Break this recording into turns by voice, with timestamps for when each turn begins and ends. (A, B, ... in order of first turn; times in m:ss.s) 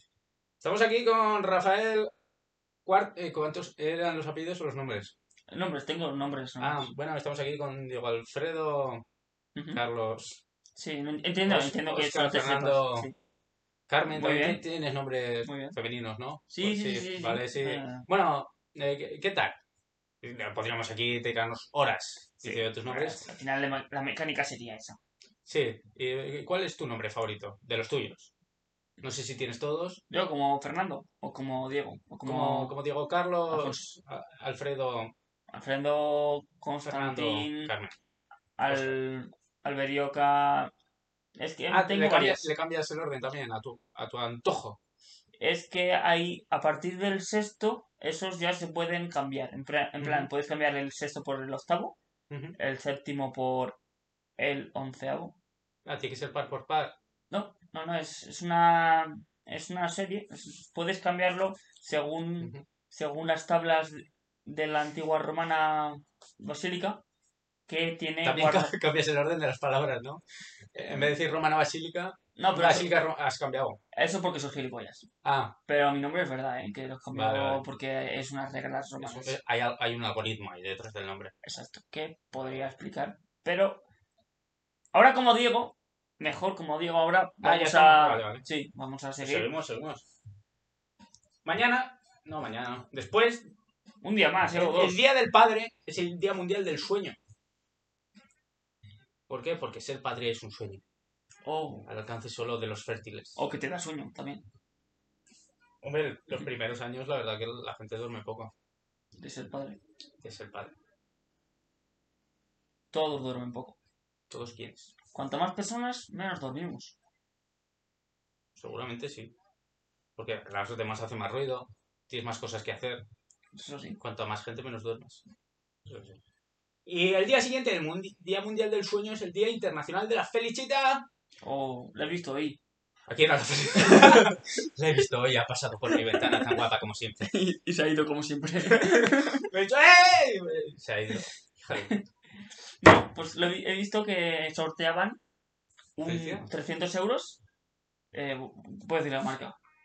0:00.6-0:02.1 A
0:02.8-0:05.1 A
0:05.5-0:06.9 B
0:06.6-0:09.0 A
0:09.6-0:09.8 B
0:09.7-0:10.4 A
0:10.8-0:13.1 B
0:11.4-0:13.1 A
0:13.9-0:19.6 A
0:14.1-0:14.6 B
0:15.4-0:15.8 B
0:16.5-0:18.0 B
0:20.2-0:23.2 A
0:22.4-0:25.0 B
0:25.4-0:28.3 A
0:29.0-0:30.0 A
0:30.1-0:32.7 B
0:32.2-0:35.1 A
0:33.5-0:33.8 B
0:35.5-0:37.7 B
0:36.8-0:37.9 A
0:38.6-0:40.7 B
0:38.7-0:39.0 A
0:41.4-0:42.5 B
0:41.7-0:44.8 A
0:45.4-0:52.0 B
0:50.0-0:50.3 A
0:52.3-0:52.6 A
0:52.6-0:53.8 B
0:54.4-0:55.4 B
0:55.8-0:56.9 A
0:57.3-1:07.0 B
1:07.7-1:08.7 B
1:08.2-1:10.2 A
1:10.7-1:13.8 A
1:10.8-1:11.1 B
1:12.4-1:12.9 B
1:13.9-1:15.1 B
1:15.2-1:15.6 A
1:15.7-1:19.4 B
1:17.1-1:17.6 A
1:19.0-1:21.3 A
1:21.4-1:23.8 B
1:24.9-1:29.5 B
1:27.4-1:28.4 A
1:29.2-1:30.0 A
1:31.4-1:33.5 A
1:34.0-1:35.0 B
1:34.5-1:37.2 A
1:39.3-1:40.8 A
1:41.4-1:41.9 B
1:41.8-1:43.4 A
1:43.4-1:44.4 B
1:45.8-1:48.5 A
1:49.2-1:49.8 B
1:50.2-1:50.7 A
1:52.9-1:53.8 B
1:54.3-1:54.9 A
1:55.1-1:57.0 B
1:58.6-1:59.3 A
2:00.2-2:03.0 A
2:03.5-2:04.0 B
2:04.0-2:05.2 A
2:05.9-2:06.2 A
2:06.8-2:11.0 A
2:11.4-2:12.6 B
2:13.1-2:17.3 A
2:13.8-2:14.4 B
2:15.9-2:16.6 B
2:17.2-2:19.5 B
2:18.6-2:22.0 A
2:21.7-2:22.0 B
2:22.8-2:25.2 B
2:26.0-2:27.4 B
2:26.0-2:26.4 A
2:28.1-2:29.6 B